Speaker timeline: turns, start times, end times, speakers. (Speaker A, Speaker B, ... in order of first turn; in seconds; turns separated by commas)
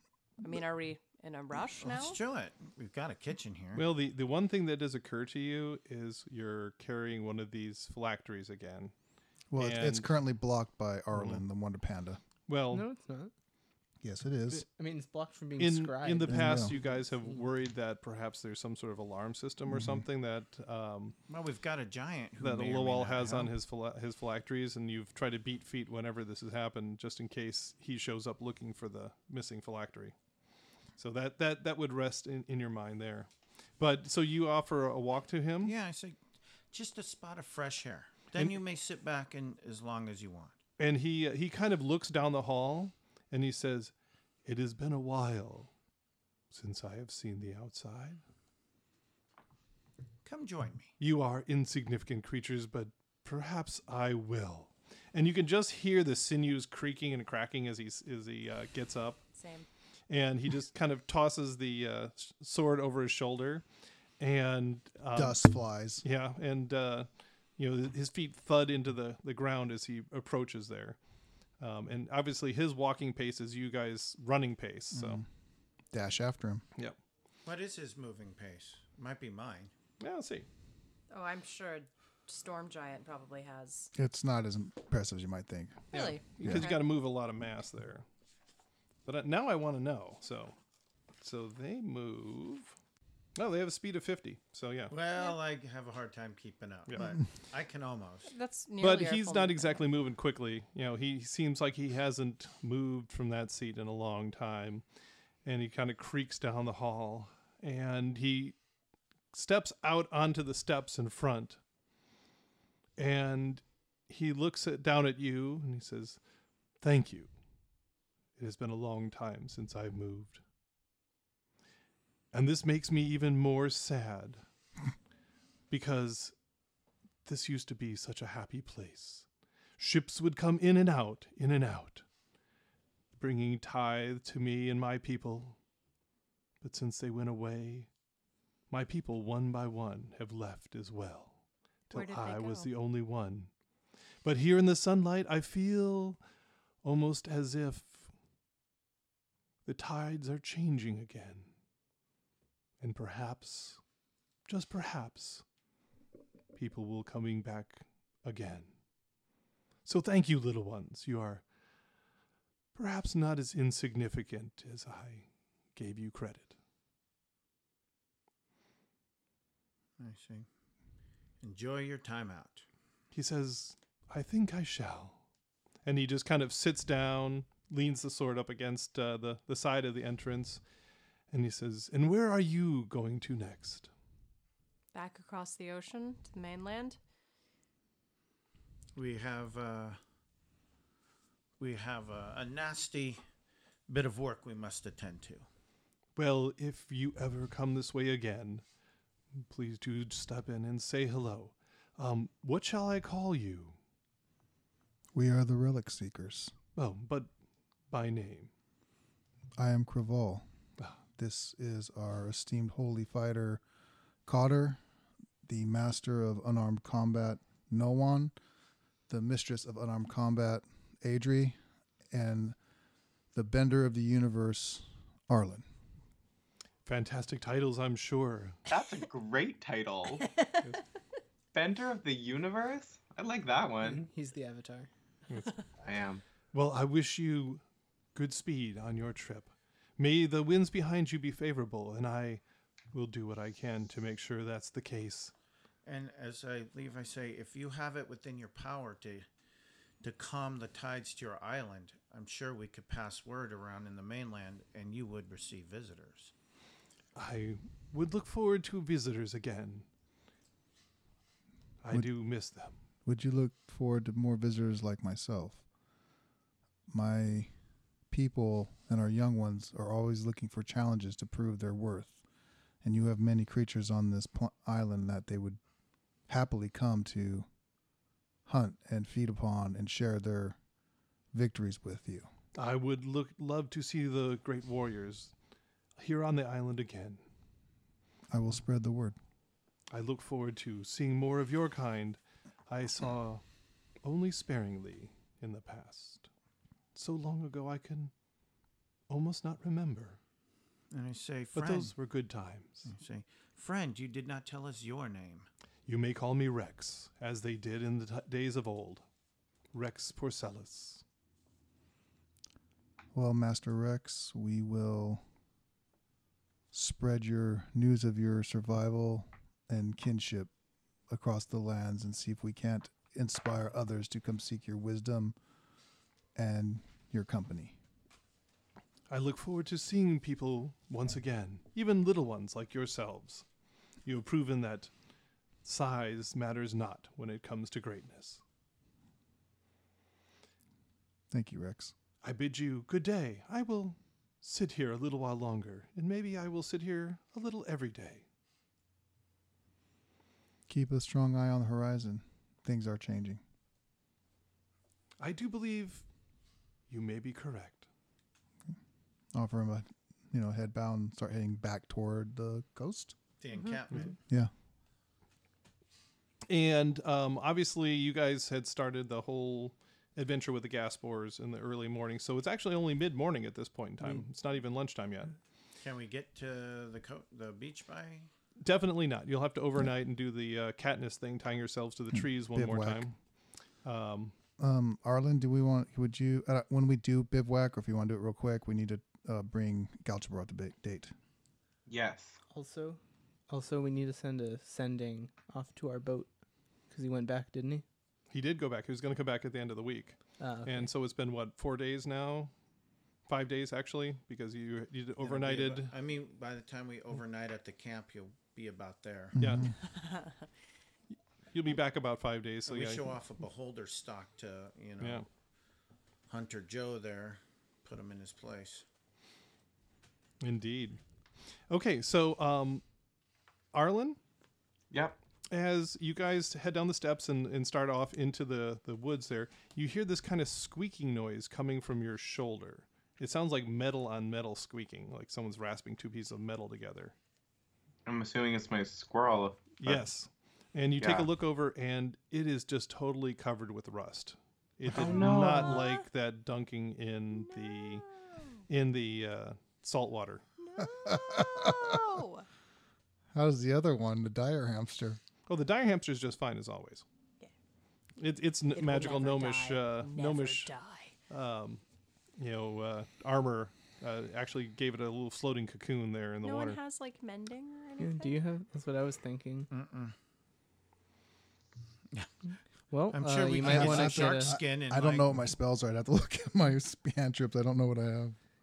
Speaker A: 0.4-2.2, Speaker B: 1.8-3.9, Speaker C: 3.8-8.9, Speaker D: 9.5-12.2, Speaker C: 9.6-10.1, Speaker C: 11.1-11.4, Speaker C: 12.5-12.9, Speaker E: 12.7-13.3, Speaker D: 14.0-14.7, Speaker E: 14.8-17.4, Speaker C: 15.6-21.2, Speaker D: 16.3-16.7, Speaker D: 19.7-20.1, Speaker B: 21.3-23.5, Speaker C: 22.4-30.1, Speaker C: 31.0-35.8, Speaker B: 35.6-36.2, Speaker B: 36.7-40.6, Speaker C: 40.8-43.9, Speaker C: 44.5-45.7, Speaker C: 46.5-48.2, Speaker B: 50.2-50.9, Speaker C: 51.0-59.2, Speaker A: 59.4-59.7, Speaker C: 60.1-63.6, Speaker C: 64.2-65.5, Speaker D: 65.1-66.0, Speaker C: 66.0-71.0, Speaker C: 71.6-75.2, Speaker D: 74.9-75.3, Speaker D: 75.9-76.6, Speaker B: 77.5-79.7, Speaker C: 80.0-80.5, Speaker A: 81.1-83.9, Speaker D: 83.9-85.8, Speaker A: 85.9-86.8, Speaker C: 85.9-88.0, Speaker D: 86.4-86.7, Speaker C: 89.1-90.5, Speaker C: 91.2-92.7, Speaker C: 93.4-95.0, Speaker B: 94.9-98.3, Speaker A: 98.3-99.8, Speaker C: 98.8-104.8, Speaker C: 105.5-108.6, Speaker C: 109.3-111.6, Speaker C: 113.0-116.2, Speaker C: 116.8-117.3, Speaker C: 118.4-120.4, Speaker C: 122.3-124.4, Speaker C: 125.7-126.3, Speaker C: 127.2-129.3, Speaker C: 129.8-132.0, Speaker C: 133.2-135.6, Speaker C: 136.6-137.9, Speaker C: 138.7-141.3, Speaker C: 141.9-143.5, Speaker A: 141.9-142.7, Speaker C: 144.2-146.2, Speaker C: 146.8-148.1, Speaker C: 149.7-151.5, Speaker C: 152.8-153.8, Speaker C: 154.5-155.4, Speaker C: 156.6-158.7, Speaker C: 159.8-161.4, Speaker C: 162.8-166.6, Speaker B: 170.0-170.5, Speaker B: 171.4-172.7, Speaker C: 173.1-175.2, Speaker C: 175.8-180.6, Speaker C: 181.3-183.9, Speaker A: 184.9-187.0, Speaker B: 189.0-190.0, Speaker B: 191.6-193.2, Speaker B: 193.9-195.5, Speaker C: 196.2-198.6, Speaker C: 199.5-203.8, Speaker D: 205.1-206.5, Speaker C: 206.8-207.3, Speaker C: 207.9-208.5, Speaker D: 209.6-210.4, Speaker D: 211.2-213.6, Speaker D: 214.3-214.8, Speaker D: 215.4-218.3, Speaker D: 219.1-221.6, Speaker D: 222.1-222.6, Speaker D: 223.3-225.7, Speaker C: 226.9-228.6, Speaker F: 228.7-230.3, Speaker A: 230.2-230.5, Speaker F: 231.5-234.0, Speaker E: 233.8-234.9, Speaker F: 235.8-236.2, Speaker C: 236.5-237.6, Speaker C: 238.2-242.4, Speaker C: 242.9-245.3, Speaker B: 245.8-249.3, Speaker B: 250.0-256.3, Speaker C: 257.2-259.9, Speaker C: 261.8-262.7, Speaker D: 263.1-265.6, Speaker D: 266.9-267.5, Speaker D: 268.1-272.2, Speaker D: 272.8-275.6, Speaker D: 276.3-277.5, Speaker D: 278.5-280.6, Speaker D: 281.3-282.3, Speaker C: 282.6-285.3, Speaker C: 286.0-287.2, Speaker D: 288.3-289.2, Speaker C: 289.9-293.4, Speaker C: 294.0-296.3, Speaker C: 296.9-298.1, Speaker C: 299.1-300.2, Speaker B: 300.9-301.9, Speaker C: 301.6-302.9, Speaker B: 302.9-305.5, Speaker C: 305.9-309.0, Speaker C: 309.7-311.0, Speaker D: 313.1-315.2, Speaker D: 316.7-320.5, Speaker D: 321.1-325.4, Speaker D: 326.4-327.8, Speaker C: 329.1-333.4, Speaker C: 334.1-334.9, Speaker C: 335.6-338.4, Speaker D: 341.3-341.9, Speaker C: 342.2-348.2, Speaker D: 350.7-353.4, Speaker C: 355.2-356.0, Speaker C: 356.9-357.9, Speaker D: 359.3-363.1, Speaker B: 363.4-364.2, Speaker C: 366.5-375.4, Speaker B: 375.8-378.3, Speaker C: 378.6-383.2, Speaker D: 382.1-383.0, Speaker C: 383.8-384.3, Speaker D: 384.6-391.1, Speaker F: 391.9-392.4, Speaker E: 392.5-396.3, Speaker E: 396.9-397.8, Speaker C: 398.3-402.5, Speaker E: 400.4-400.9, Speaker C: 403.3-405.9, Speaker B: 405.2-409.4, Speaker D: 409.4-409.7, Speaker C: 409.4-409.7, Speaker A: 409.9-410.4, Speaker C: 411.5-413.2, Speaker B: 412.7-415.2, Speaker C: 415.0-415.2, Speaker B: 416.3-418.9, Speaker C: 420.4-421.0, Speaker C: 421.7-422.8, Speaker C: 423.7-424.2, Speaker F: 424.9-425.2, Speaker C: 425.5-437.1, Speaker F: 438.1-440.1, Speaker C: 439.8-448.1, Speaker F: 441.0-441.3, Speaker F: 444.9-445.8, Speaker A: 447.4-448.5, Speaker C: 448.7-450.4, Speaker A: 450.6-452.5, Speaker D: 450.8-452.0, Speaker D: 453.3-455.2, Speaker C: 455.5-457.1, Speaker C: 458.2-460.7, Speaker A: 458.7-461.1, Speaker C: 461.3-461.8, Speaker C: 462.4-466.8, Speaker A: 466.4-468.4, Speaker E: 468.0-469.7, Speaker B: 469.7-470.1, Speaker E: 472.9-474.6, Speaker B: 473.1-475.4, Speaker D: 473.6-478.4